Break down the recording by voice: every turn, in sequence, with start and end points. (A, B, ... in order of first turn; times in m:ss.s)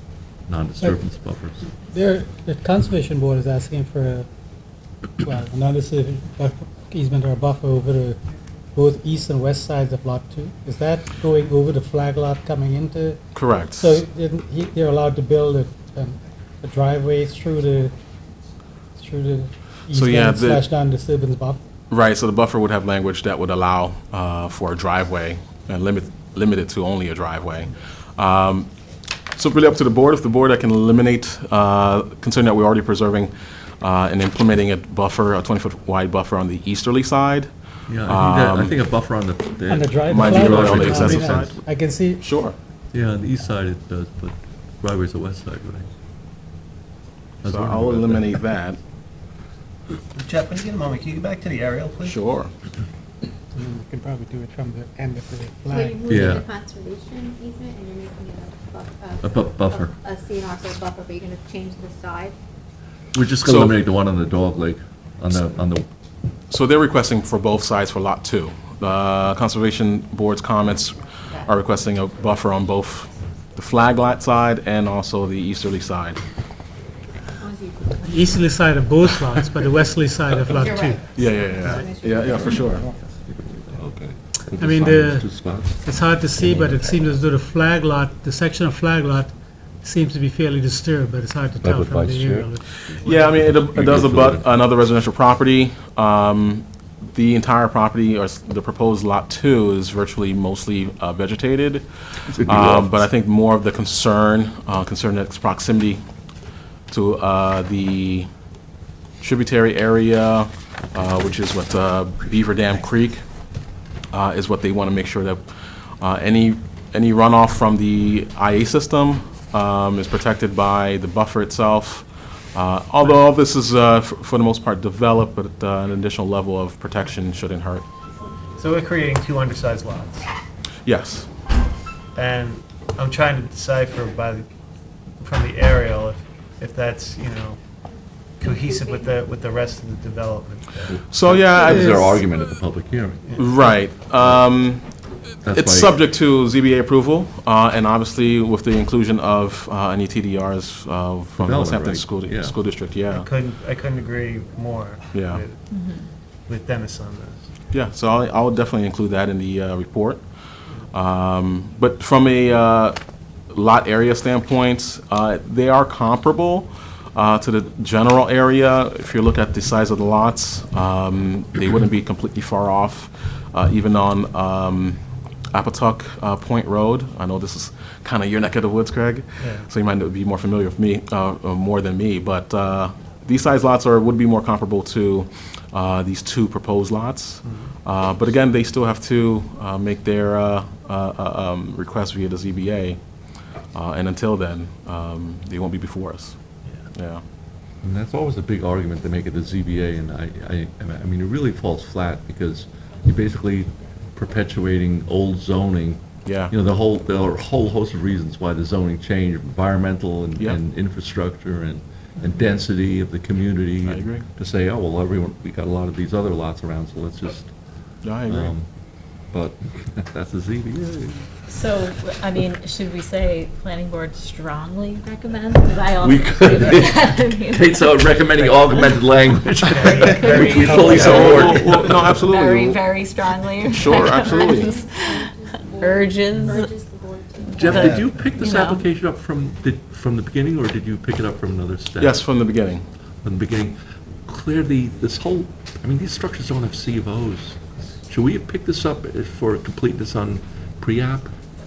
0:00.5-0:01.7 A
0:01.9-0:04.3 B
0:05.2-0:08.2 B
0:08.8-0:17.9 B
0:13.3-0:14.0 C
0:19.0-0:21.6 B
0:19.9-0:20.6 C
0:21.9-0:28.7 C
0:29.4-0:37.5 C
0:37.9-0:41.6 A
0:38.0-0:38.8 C
0:39.7-0:42.3 B
0:40.1-0:41.6 C
0:42.2-0:42.6 C
0:42.9-0:45.9 A
0:47.4-0:48.8 C
0:47.4-0:48.3 A
0:50.2-0:52.2 D
0:52.0-0:52.5 C
0:53.6-0:56.0 B
0:55.7-1:02.4 E
0:56.1-0:56.5 A
0:59.2-1:00.0 A
1:03.1-1:05.9 A
1:03.4-1:03.8 C
1:06.5-1:16.2 C
1:17.4-1:18.4 E
1:18.0-1:21.0 B
1:20.4-1:22.9 E
1:21.2-1:22.8 C
1:21.6-1:21.9 B
1:22.4-1:22.9 B
1:23.3-1:25.8 A
1:24.6-1:33.6 B
1:26.4-1:26.8 A
1:31.6-1:34.5 A
1:33.0-1:46.0 C
1:42.3-1:43.0 A
1:46.9-1:48.3 C
1:49.2-1:53.3 C
1:54.1-1:55.5 C
1:56.0-2:07.8 C
2:08.6-2:10.3 D
2:10.8-2:11.3 C
2:12.2-2:14.5 D
2:15.2-2:17.6 D
2:18.4-2:21.0 D
2:18.4-2:19.2 E
2:20.9-2:23.3 A
2:21.1-2:22.3 C
2:21.7-2:22.0 F
2:23.3-2:23.6 D
2:23.4-2:25.0 C
2:25.4-2:26.0 A
2:25.5-2:33.3 C
2:31.4-2:32.6 A
2:33.1-2:35.6 D
2:35.1-2:35.4 C
2:35.7-2:36.1 F
2:36.5-2:37.4 D
2:37.7-2:40.2 C
2:40.9-2:43.0 C
2:43.5-3:13.0 C
2:59.4-2:59.7 D
3:07.4-3:07.7 D
3:13.7-3:16.4 C
3:16.9-3:17.2 C
3:17.8-3:37.5 A
3:26.2-3:26.5 C
3:33.8-3:34.3 C
3:38.0-3:38.5 C
3:38.3-3:38.7 A
3:39.3-3:41.3 A
3:41.5-3:49.0 F
3:45.3-3:45.6 E
3:46.0-3:52.0 A
3:49.7-3:51.7 D
3:49.8-3:56.7 F
3:50.8-3:52.8 C
3:50.9-3:51.5 E
3:53.6-3:54.7 C
3:53.8-3:58.0 E
3:57.6-4:02.2 A
3:57.6-3:58.8 F
4:02.0-4:02.8 C
4:03.2-4:11.3 A